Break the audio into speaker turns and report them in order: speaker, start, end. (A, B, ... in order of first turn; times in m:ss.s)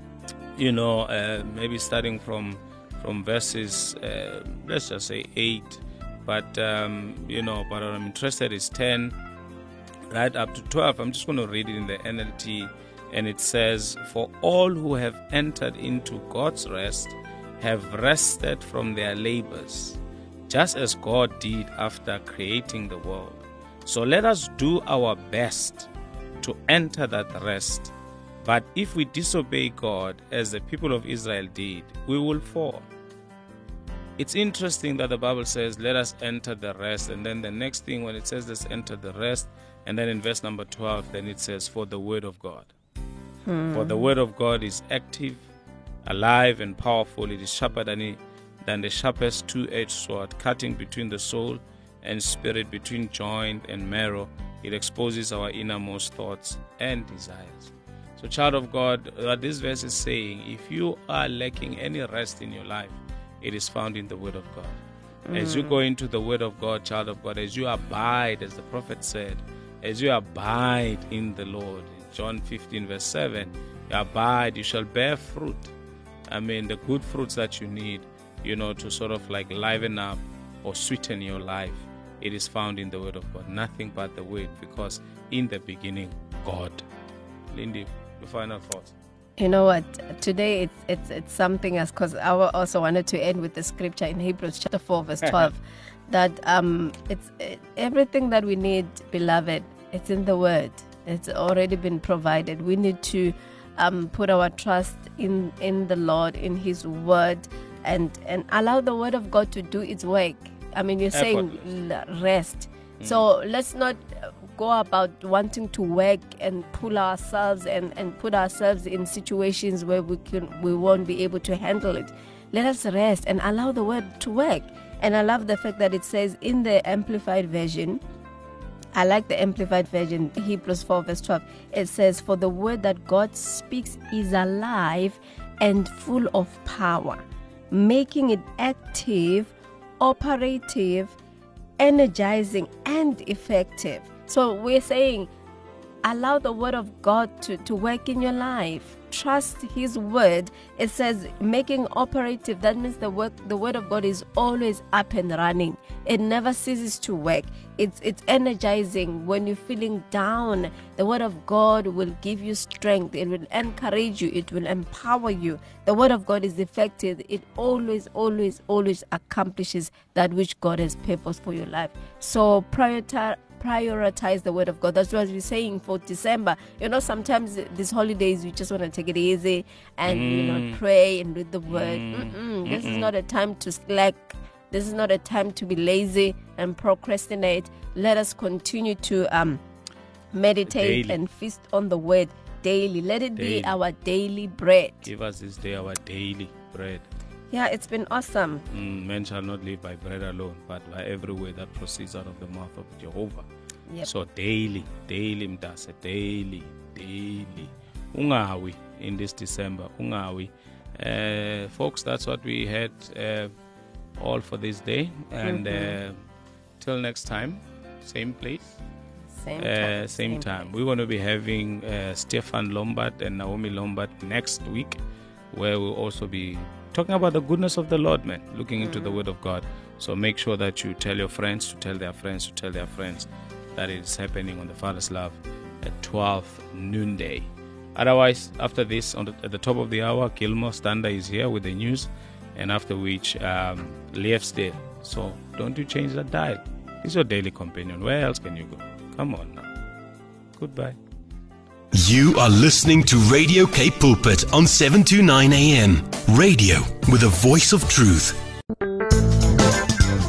0:00.6-0:09.2 A
0:10.1-0:25.9 A
0:26.4-0:27.9 A
0:28.4-0:32.8 A
0:34.2-0:42.7 A
0:43.5-0:44.1 B
0:43.7-0:45.4 A
0:46.0-1:04.8 A
1:05.3-1:05.8 B
1:05.3-1:15.7 A
1:16.3-1:26.8 A
1:27.5-1:28.9 A
1:29.4-2:08.0 B
1:51.1-1:51.6 A
2:08.9-2:21.2 B
2:21.8-2:25.3 B
2:26.0-3:09.6 B
3:00.1-3:00.8 A
3:01.7-3:03.1 A
3:10.3-3:15.1 B
3:10.7-3:11.2 A
3:13.4-3:13.7 A
3:15.0-3:17.1 A
3:17.5-3:18.6 B
3:18.7-3:23.5 A
3:24.0-3:33.5 A
3:34.2-3:36.2 A
3:35.4-3:36.0 B
3:36.8-3:38.7 A
3:39.3-3:40.7 B
3:39.6-3:45.0 A
3:45.5-4:09.7 A
3:48.8-3:49.2 B
4:10.6-4:11.0 A
4:11.9-4:18.4 C